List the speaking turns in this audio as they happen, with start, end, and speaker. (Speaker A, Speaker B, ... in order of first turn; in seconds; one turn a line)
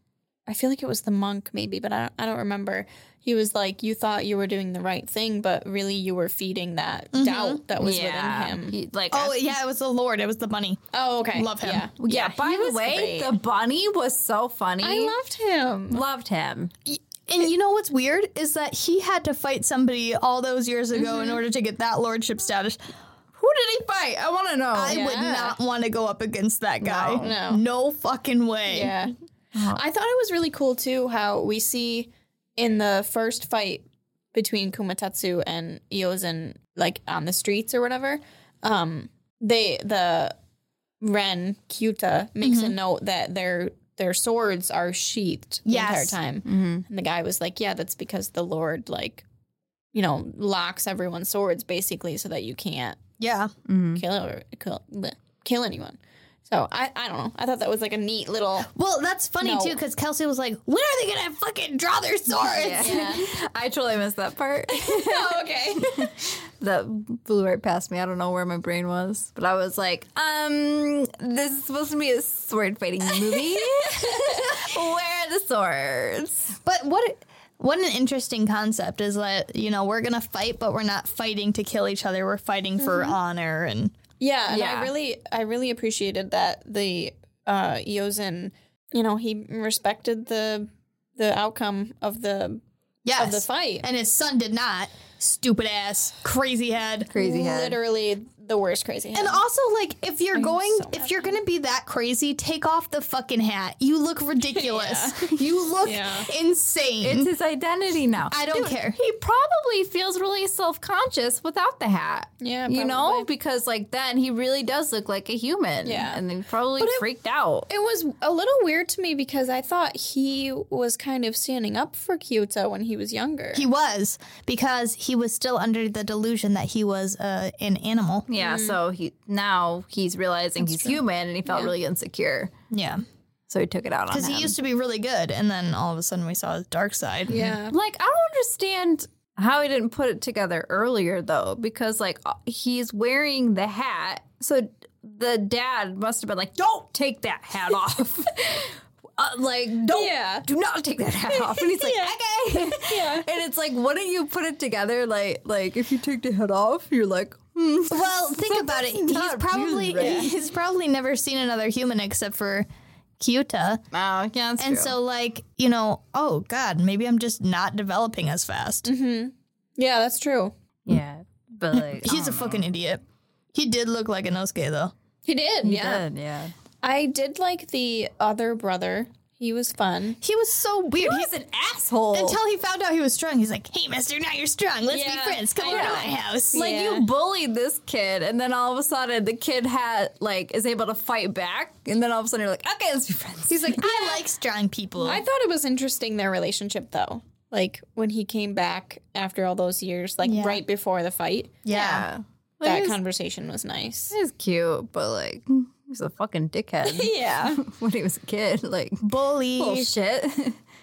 Speaker A: 0.5-8.8
Speaker B: 7.1-7.6
Speaker C: 7.8-9.4
Speaker B: 9.1-11.9
Speaker A: 10.9-13.3
Speaker C: 12.0-15.2
Speaker A: 14.8-16.0
Speaker C: 15.9-16.7
Speaker B: 16.9-22.8
Speaker A: 20.9-21.4
Speaker C: 23.4-25.0
Speaker B: 24.7-29.0
Speaker A: 24.9-25.6
Speaker A: 26.8-27.6
Speaker C: 26.9-27.3
Speaker A: 28.7-40.4
Speaker C: 29.5-29.8
Speaker A: 41.0-49.2
Speaker B: 42.4-42.7
Speaker B: 45.6-46.2
Speaker C: 46.4-46.8
Speaker A: 49.9-53.0
Speaker B: 53.2-53.5
Speaker C: 53.6-54.0
Speaker A: 53.9-58.7
Speaker B: 58.7-63.2
Speaker A: 59.4-59.8
Speaker C: 62.5-76.5
Speaker A: 62.6-63.3
Speaker A: 64.7-66.1
Speaker A: 73.6-74.6
Speaker B: 76.6-83.9
Speaker A: 82.8-83.2
Speaker A: 84.2-92.6
Speaker C: 84.5-84.9
Speaker B: 93.0-97.1
Speaker A: 93.2-93.8
Speaker C: 97.1-97.8
Speaker A: 97.1-99.4
Speaker B: 99.1-107.3
Speaker A: 100.3-101.4
Speaker A: 104.5-106.3
Speaker C: 107.0-117.7
Speaker B: 108.3-109.0
Speaker A: 112.4-113.3
Speaker A: 115.8-116.2
Speaker A: 116.8-117.0
Speaker A: 117.7-123.7
Speaker B: 123.5-128.3
Speaker C: 128.3-132.5
Speaker A: 128.4-128.8
Speaker A: 130.6-131.7
Speaker B: 132.7-133.0
Speaker C: 133.5-134.5
Speaker B: 134.1-137.5
Speaker A: 137.3-137.8
Speaker C: 137.7-160.3
Speaker A: 149.9-150.5
Speaker A: 151.3-153.3
Speaker B: 157.9-162.7
Speaker A: 160.0-160.3
Speaker B: 163.2-163.8
Speaker C: 163.9-164.9
Speaker B: 164.6-168.9
Speaker A: 168.8-170.5
Speaker C: 170.9-172.7
Speaker B: 171.7-173.0
Speaker B: 173.5-174.9
Speaker A: 175.2-176.0
Speaker C: 175.6-176.5
Speaker A: 176.8-180.2
Speaker B: 180.2-181.3
Speaker C: 181.0-182.4
Speaker B: 182.1-186.6
Speaker A: 184.9-187.1
Speaker C: 185.6-193.9
Speaker B: 193.5-195.2
Speaker A: 193.7-194.1
Speaker A: 195.0-201.7
Speaker B: 200.2-200.6
Speaker B: 201.6-202.1
Speaker C: 201.7-202.9
Speaker A: 202.6-204.1
Speaker C: 204.1-209.0
Speaker A: 206.8-207.6
Speaker B: 209.0-209.9
Speaker C: 209.6-210.6